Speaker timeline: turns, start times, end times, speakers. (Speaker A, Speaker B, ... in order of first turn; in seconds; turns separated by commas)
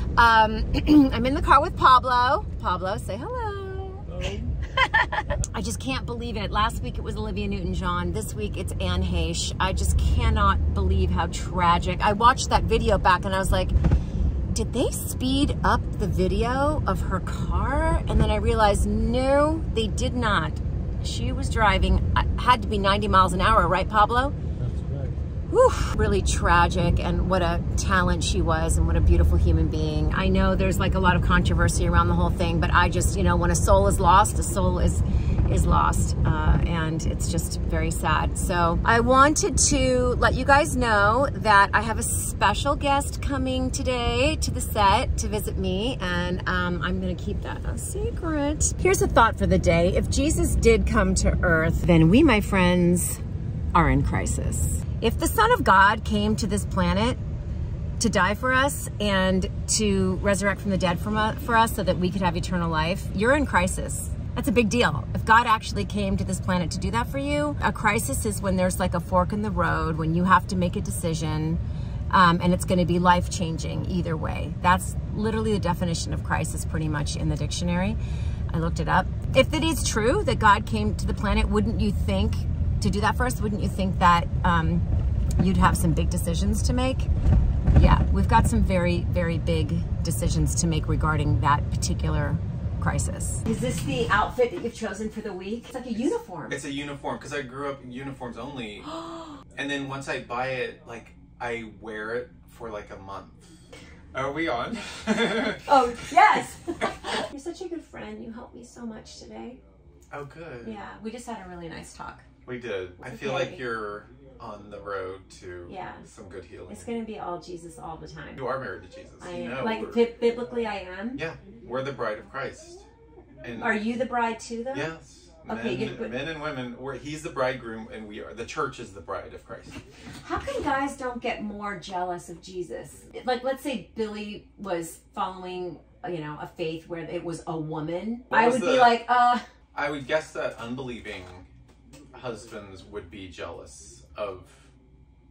Speaker A: 0.2-13.8, Speaker B: 4.1-4.4, Speaker A: 14.5-24.4, Speaker A: 25.5-53.2, Speaker A: 53.7-57.2, Speaker A: 58.0-78.0, Speaker A: 78.5-84.8, Speaker A: 85.4-87.1, Speaker A: 87.7-96.6, Speaker B: 96.5-99.0, Speaker A: 98.9-99.4, Speaker B: 99.5-103.5, Speaker B: 104.1-105.6, Speaker A: 105.6-109.6, Speaker B: 110.1-110.8, Speaker A: 110.6-112.2, Speaker B: 112.4-116.9, Speaker A: 113.0-113.7, Speaker A: 115.7-116.1, Speaker A: 116.7-118.5, Speaker B: 118.4-120.1, Speaker A: 119.2-121.2, Speaker B: 121.2-122.9, Speaker B: 123.4-124.0, Speaker A: 123.6-124.9, Speaker B: 124.7-129.8, Speaker A: 125.5-126.2, Speaker A: 130.2-139.4, Speaker B: 138.3-139.1, Speaker B: 139.7-141.5, Speaker B: 142.1-144.7